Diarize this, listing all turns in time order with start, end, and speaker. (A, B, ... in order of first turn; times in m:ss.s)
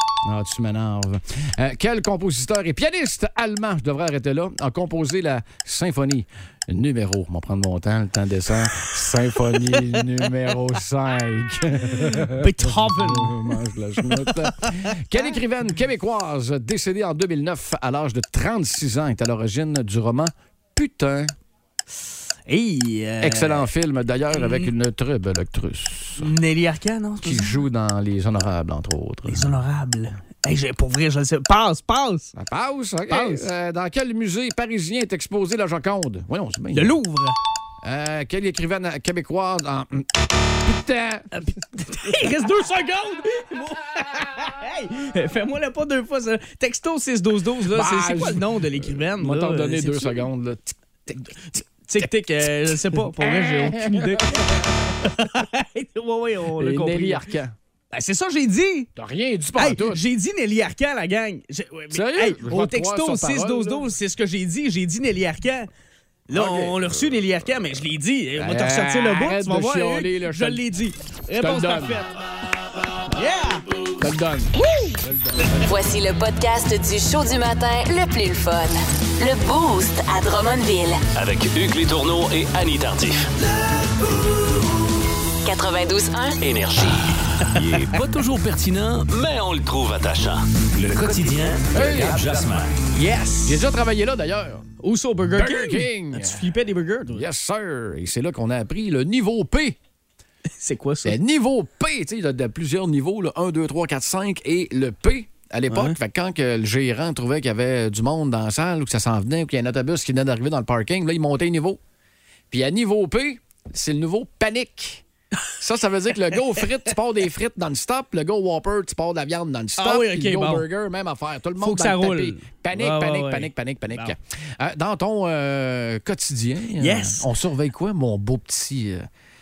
0:00.2-0:21.3 A
0:09.7-0:10.0 B
0:12.3-0:14.9 B
0:22.5-0:23.7 B
0:23.2-0:26.3 A
0:24.3-0:24.7 B
0:26.2-0:27.6 B
0:27.2-0:29.5 A
0:29.3-0:32.3 B
0:32.4-0:37.0 A
0:33.1-0:33.5 B
0:36.7-0:37.4 B
0:37.8-0:41.5 A
0:41.4-0:50.2 B
0:47.7-0:52.1 A
0:51.9-0:57.3 B
0:52.7-0:55.2 A
0:56.6-0:57.6 A
0:57.9-0:58.9 B
0:59.0-1:00.0 A
0:59.6-1:05.7 B
1:01.9-1:03.9 A
1:06.3-1:07.2 A
1:06.3-1:12.1 B
1:08.4-1:10.6 A
1:11.4-1:12.0 A
1:13.1-1:13.6 B
1:14.0-1:15.8 A
1:14.6-1:14.9 B
1:15.6-1:21.0 C
1:21.1-1:23.3 D
1:25.4-1:26.4 C
1:26.4-1:32.8 D
1:31.7-1:32.4 A
1:32.9-1:33.6 B
1:33.4-1:34.7 A
1:34.8-1:37.2 B
1:35.3-1:36.5 A
1:37.1-1:39.8 A
1:40.6-1:41.2 B
1:41.0-1:51.8 A
1:45.7-1:46.0 B
1:52.5-1:55.0 A
1:55.6-2:09.1 A
1:59.8-2:00.7 B
2:01.6-2:04.1 B
2:06.8-2:07.3 B